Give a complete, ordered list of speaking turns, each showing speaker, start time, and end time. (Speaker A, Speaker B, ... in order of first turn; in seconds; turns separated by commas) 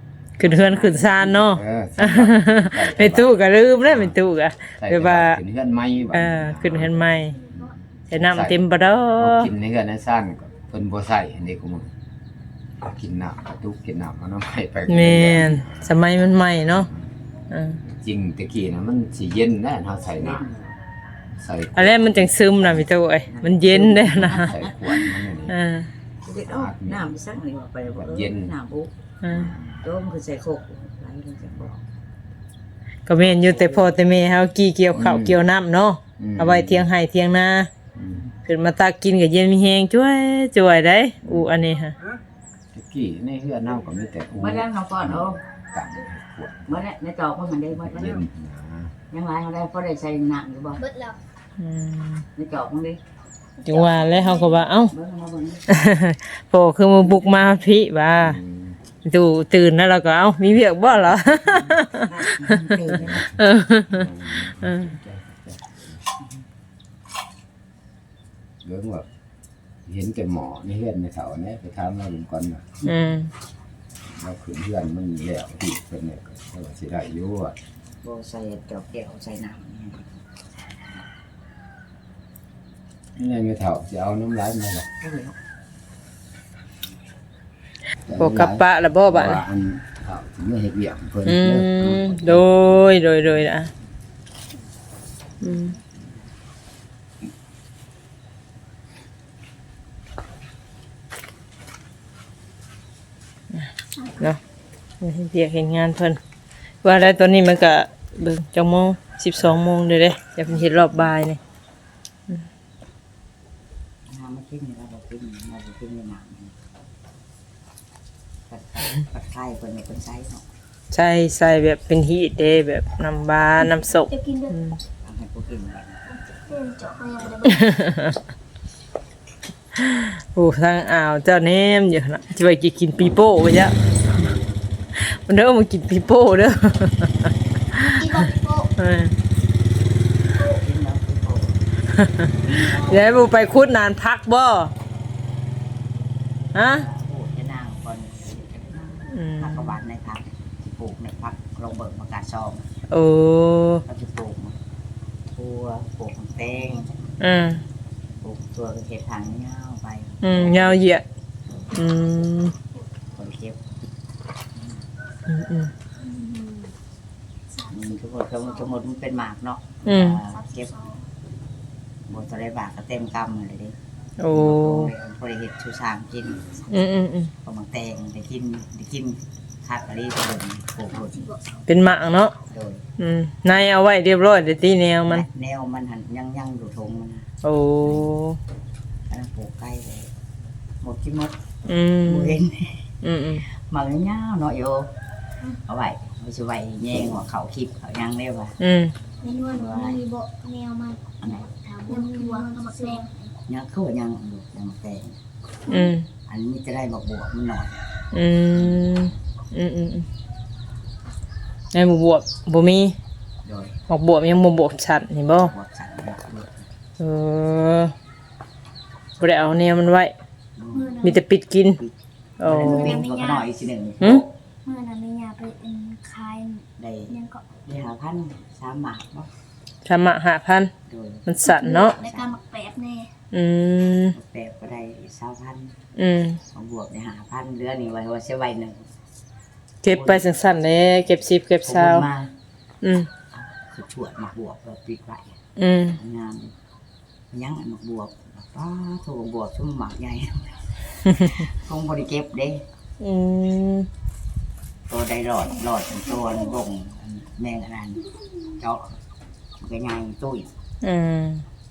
Speaker A: 0.4-5.4, Speaker B: 0.4-3.3, Speaker B: 3.8-4.2, Speaker B: 4.8-11.9, Speaker A: 6.1-7.4, Speaker A: 8.1-9.5, Speaker B: 12.8-15.9, Speaker A: 14.9-16.9, Speaker B: 16.7-17.1, Speaker A: 17.5-17.8, Speaker B: 17.8-20.5, Speaker C: 20.1-20.7, Speaker B: 21.3-22.9, Speaker A: 21.8-25.9, Speaker C: 23.3-24.9, Speaker B: 23.9-25.6, Speaker C: 26.2-28.9, Speaker B: 26.4-27.1, Speaker B: 27.8-28.5, Speaker A: 29.2-29.5, Speaker B: 29.3-29.8, Speaker C: 29.8-31.6, Speaker B: 31.6-31.8, Speaker A: 33.0-37.7, Speaker C: 33.2-34.0, Speaker B: 34.9-35.4, Speaker B: 36.2-36.9, Speaker B: 37.9-38.3, Speaker A: 38.5-41.9, Speaker B: 41.2-41.6, Speaker B: 42.7-46.8, Speaker C: 44.4-45.4, Speaker C: 46.7-48.2, Speaker B: 47.7-48.9, Speaker C: 49.1-50.8, Speaker D: 50.8-51.2, Speaker A: 51.6-52.2, Speaker C: 52.4-53.0, Speaker A: 53.6-54.9, Speaker C: 53.7-55.6, Speaker A: 55.7-58.4, Speaker B: 58.2-58.8, Speaker A: 59.0-62.8, Speaker C: 62.1-63.3, Speaker B: 63.1-63.4, Speaker A: 63.3-64.1, Speaker B: 63.9-65.9, Speaker A: 64.6-64.9, Speaker B: 68.6-69.0, Speaker B: 69.8-72.8, Speaker A: 72.8-73.3, Speaker B: 74.0-77.5, Speaker C: 78.0-80.2, Speaker B: 83.2-84.9, Speaker C: 85.0-85.3, Speaker B: 88.1-92.4, Speaker A: 88.2-89.4, Speaker A: 91.2-93.7, Speaker A: 95.4-95.8, Speaker A: 103.5-104.4, Speaker A: 105.0-106.2, Speaker A: 106.8-111.4, Speaker C: 114.0-116.5, Speaker C: 118.5-120.5, Speaker A: 120.9-124.8, Speaker D: 124.1-124.5, Speaker C: 125.0-126.0, Speaker D: 126.3-127.6, Speaker A: 127.4-128.2, Speaker A: 129.8-133.8, Speaker A: 134.9-139.2, Speaker D: 137.8-138.7, Speaker C: 140.3-141.6, Speaker A: 141.9-144.7, Speaker D: 142.5-143.0, Speaker A: 146.5-146.9, Speaker C: 146.7-152.7, Speaker A: 149.1-149.8, Speaker A: 152.9-153.8, Speaker C: 153.9-154.6, Speaker C: 155.3-157.0, Speaker A: 157.2-157.6, Speaker C: 158.2-160.8, Speaker A: 160.2-161.0, Speaker A: 161.7-162.5, Speaker C: 163.1-163.6, Speaker C: 164.6-164.8, Speaker A: 165.3-165.7, Speaker D: 166.0-166.7, Speaker D: 167.5-167.8, Speaker C: 167.6-170.8, Speaker A: 169.8-170.2, Speaker D: 170.4-171.0, Speaker C: 172.1-173.8, Speaker A: 174.2-174.9, Speaker C: 174.3-176.7, Speaker A: 176.7-177.3, Speaker C: 177.4-181.3, Speaker A: 181.7-182.3, Speaker C: 182.5-182.8, Speaker A: 183.0-185.2, Speaker C: 185.0-187.3, Speaker A: 187.4-188.4, Speaker C: 189.1-190.1, Speaker C: 190.8-191.3, Speaker A: 191.7-192.4, Speaker C: 192.0-192.9, Speaker A: 193.0-193.4, Speaker C: 193.4-194.9, Speaker C: 195.5-198.6, Speaker A: 198.6-198.9, Speaker D: 199.2-201.0, Speaker C: 199.3-200.0, Speaker C: 201.2-201.5, Speaker D: 201.6-203.3, Speaker C: 203.5-205.2, Speaker A: 205.7-206.1, Speaker C: 206.3-207.8, Speaker A: 208.1-210.1, Speaker A: 211.7-212.9, Speaker C: 213.4-213.8, Speaker A: 213.9-215.5, Speaker C: 215.4-216.7, Speaker A: 217.0-217.9, Speaker A: 219.2-220.1, Speaker C: 220.6-221.2, Speaker D: 220.8-221.2, Speaker A: 221.0-221.8, Speaker C: 221.8-224.3, Speaker A: 222.4-222.9, Speaker D: 222.5-223.4, Speaker D: 224.6-227.4, Speaker C: 226.8-229.3, Speaker A: 229.8-230.7, Speaker C: 230.9-232.4, Speaker A: 231.2-232.0, Speaker D: 231.4-233.1, Speaker A: 233.3-234.1, Speaker C: 234.1-235.8, Speaker A: 235.9-236.4, Speaker C: 236.5-238.9, Speaker A: 239.8-242.1, Speaker C: 239.8-240.3, Speaker C: 241.6-242.3, Speaker A: 242.8-243.1, Speaker C: 243.3-245.4, Speaker A: 245.6-246.0, Speaker C: 245.9-246.5, Speaker C: 247.3-252.6, Speaker A: 251.1-251.4, Speaker A: 253.0-253.9, Speaker C: 254.9-259.0, Speaker C: 259.6-260.5, Speaker A: 260.8-261.4